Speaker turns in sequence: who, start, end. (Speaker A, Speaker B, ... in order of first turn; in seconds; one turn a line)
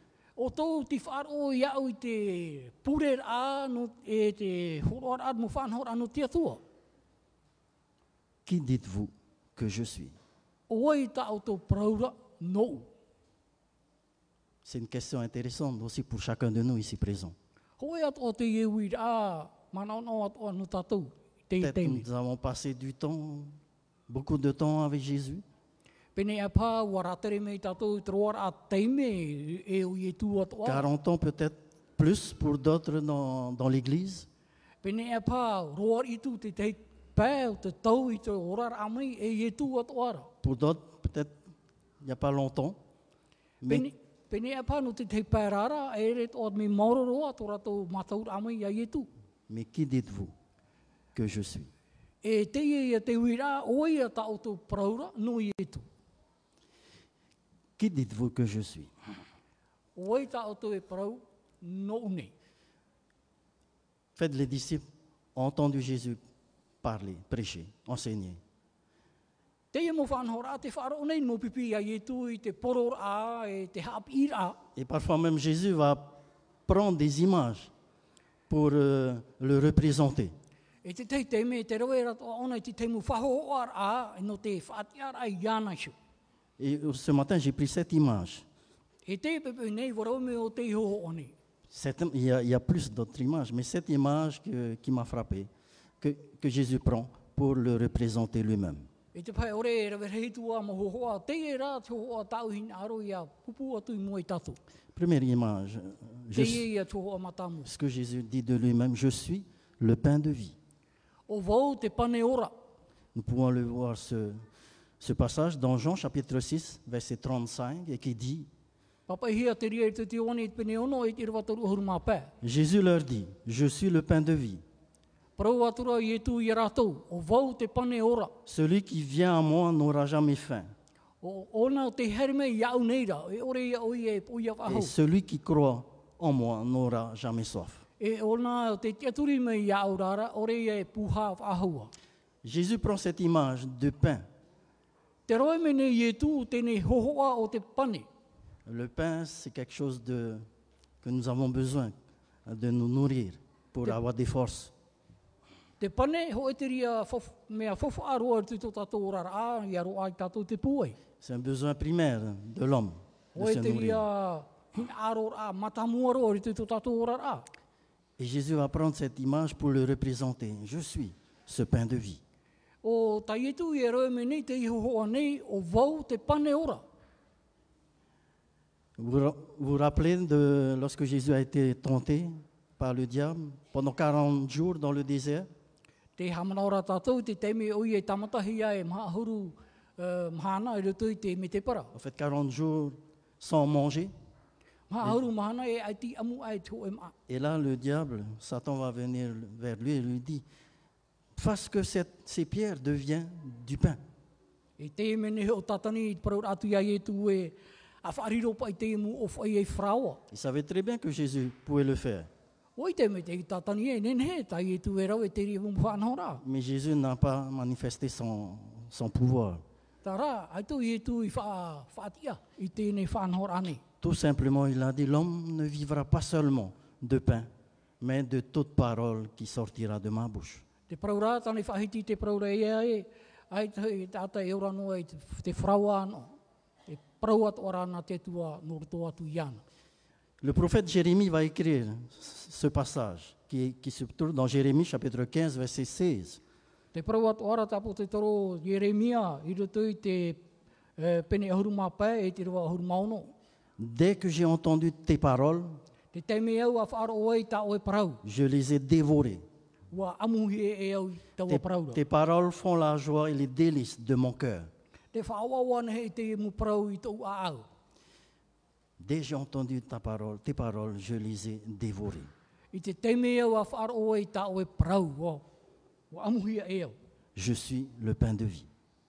Speaker A: 0.4-6.6
Speaker B: 8.5-10.2
Speaker A: 10.7-12.9
Speaker B: 14.6-17.4
Speaker A: 17.8-22.0
Speaker B: 21.6-23.6
Speaker B: 24.1-25.4
Speaker A: 26.1-30.9
Speaker B: 30.6-34.3
Speaker A: 34.8-40.3
Speaker B: 40.4-41.4
Speaker B: 42.0-42.8
Speaker B: 43.6-43.9
Speaker A: 43.6-49.1
Speaker B: 49.5-50.3
Speaker B: 51.1-51.7
Speaker A: 52.2-55.8
Speaker B: 57.8-58.9
Speaker A: 60.0-62.3
Speaker B: 64.2-66.2
Speaker B: 66.8-68.4
Speaker A: 69.7-74.6
Speaker B: 74.8-77.7
Speaker B: 78.5-80.3
Speaker A: 80.8-86.0
Speaker B: 86.6-88.5
Speaker A: 89.1-91.3
Speaker B: 91.7-95.5
Speaker B: 96.0-98.9
Speaker A: 99.1-104.6
Speaker B: 104.9-106.7
Speaker A: 106.3-107.7
Speaker B: 107.7-110.6
Speaker A: 111.3-112.5
Speaker B: 113.2-114.5
Speaker B: 115.0-118.5
Speaker A: 119.1-122.3
Speaker B: 122.4-124.6
Speaker A: 125.4-128.3
Speaker B: 128.5-130.7
Speaker A: 131.2-134.9
Speaker B: 134.7-137.8
Speaker A: 138.0-141.9
Speaker B: 142.4-144.2
Speaker A: 145.3-148.1
Speaker B: 148.7-150.5
Speaker B: 151.0-151.9
Speaker B: 152.5-154.7
Speaker A: 155.8-161.0
Speaker B: 161.2-164.1
Speaker A: 163.4-167.5
Speaker B: 168.2-172.2
Speaker A: 172.8-176.8
Speaker B: 179.0-185.5
Speaker A: 186.2-191.9
Speaker B: 191.9-194.1
Speaker A: 194.9-197.1
Speaker B: 197.3-200.4
Speaker B: 201.4-204.0
Speaker A: 204.8-210.2
Speaker B: 210.3-212.3
Speaker A: 212.8-216.4
Speaker B: 216.4-219.6
Speaker A: 220.0-223.8
Speaker B: 224.0-227.5
Speaker B: 228.0-230.7
Speaker A: 230.9-236.3
Speaker A: 236.9-239.6
Speaker B: 240.4-246.4
Speaker A: 246.9-250.4
Speaker A: 251.0-253.3
Speaker B: 253.8-255.8
Speaker A: 256.1-258.2
Speaker B: 258.2-259.4
Speaker A: 259.9-262.0
Speaker B: 261.5-264.7
Speaker A: 265.1-267.7
Speaker B: 269.0-272.3
Speaker A: 272.7-275.4
Speaker A: 276.1-276.9
Speaker B: 277.4-278.7